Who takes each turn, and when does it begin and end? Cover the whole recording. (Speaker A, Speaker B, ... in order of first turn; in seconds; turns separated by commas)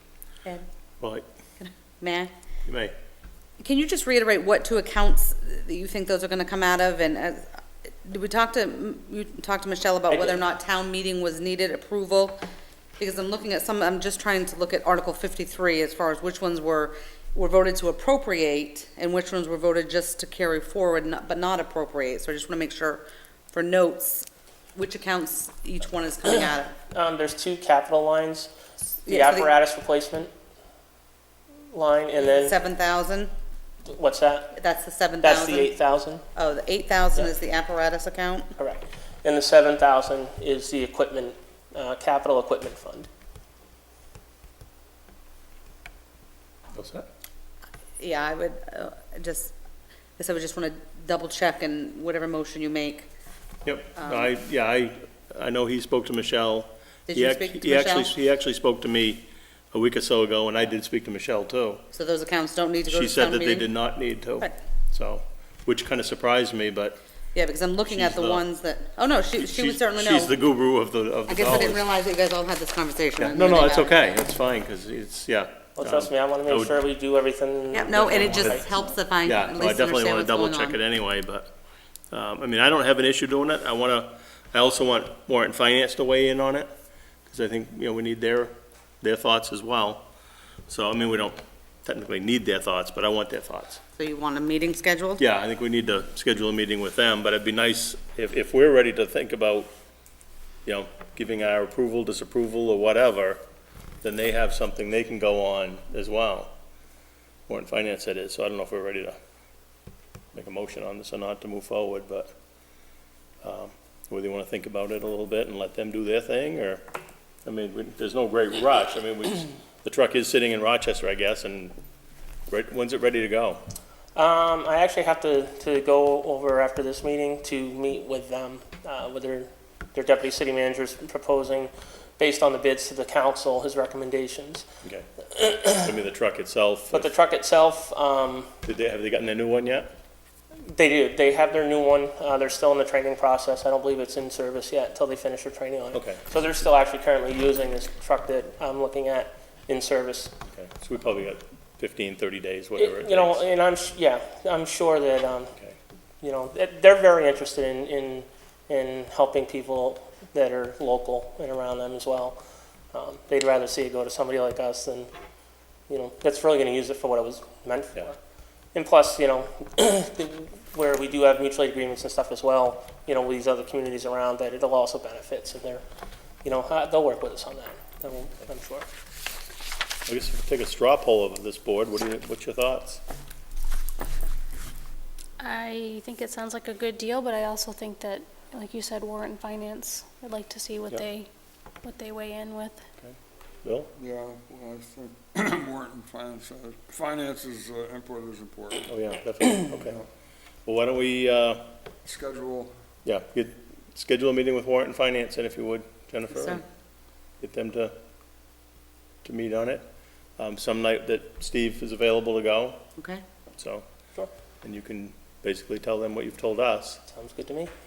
Speaker A: 1.0-1.2, Speaker B: 1.6-2.3, Speaker A: 2.6-2.9, Speaker B: 3.6-12.4, Speaker C: 10.1-10.4, Speaker B: 13.0-26.8, Speaker C: 26.9-28.5, Speaker B: 29.1-29.5, Speaker C: 29.1-30.3, Speaker C: 31.7-32.5, Speaker B: 32.2-33.3, Speaker C: 33.9-34.5, Speaker B: 34.5-35.7, Speaker C: 35.2-36.2, Speaker B: 36.3-38.5, Speaker C: 38.6-43.1, Speaker A: 46.7-47.0, Speaker B: 48.0-49.5, Speaker B: 50.2-53.1, Speaker A: 53.6-61.8, Speaker B: 54.0-54.3, Speaker B: 57.1-58.1, Speaker B: 61.9-63.7, Speaker A: 62.9-67.0, Speaker B: 67.3-70.3, Speaker A: 67.8-68.4, Speaker A: 69.4-71.8, Speaker B: 71.3-74.0, Speaker A: 73.2-76.8, Speaker C: 75.8-78.7, Speaker B: 77.7-80.8, Speaker A: 78.2-78.6, Speaker A: 79.2-81.5, Speaker A: 82.1-86.7, Speaker A: 87.3-90.0, Speaker A: 90.7-93.8, Speaker B: 94.0-95.2, Speaker A: 95.2-99.7, Speaker A: 100.7-103.4, Speaker A: 104.0-106.5, Speaker A: 107.5-109.2, Speaker A: 110.3-112.3, Speaker A: 113.4-116.8, Speaker A: 117.4-121.7, Speaker A: 122.5-123.6, Speaker C: 124.1-134.7, Speaker C: 135.3-135.8, Speaker A: 135.7-137.1, Speaker C: 136.9-138.5, Speaker A: 138.7-139.9, Speaker C: 140.6-150.3, Speaker A: 145.9-146.2, Speaker A: 150.5-153.4, Speaker C: 152.8-155.5, Speaker C: 156.2-162.4, Speaker C: 162.9-165.1, Speaker C: 165.9-168.2, Speaker C: 168.7-175.8, Speaker C: 176.4-178.9, Speaker A: 180.1-183.0, Speaker D: 185.4-191.3, Speaker D: 191.8-192.8, Speaker A: 193.0-193.9, Speaker E: 193.9-198.9, Speaker A: 198.9-200.0, Speaker A: 200.7-201.6, Speaker E: 202.0-202.7, Speaker A: 203.0-206.6, Speaker B: 206.3-206.6, Speaker A: 207.4-207.9, Speaker A: 209.2-209.8, Speaker A: 210.4-212.8, Speaker B: 213.0-213.2, Speaker A: 213.6-213.8, Speaker A: 214.6-217.0, Speaker C: 217.1-217.7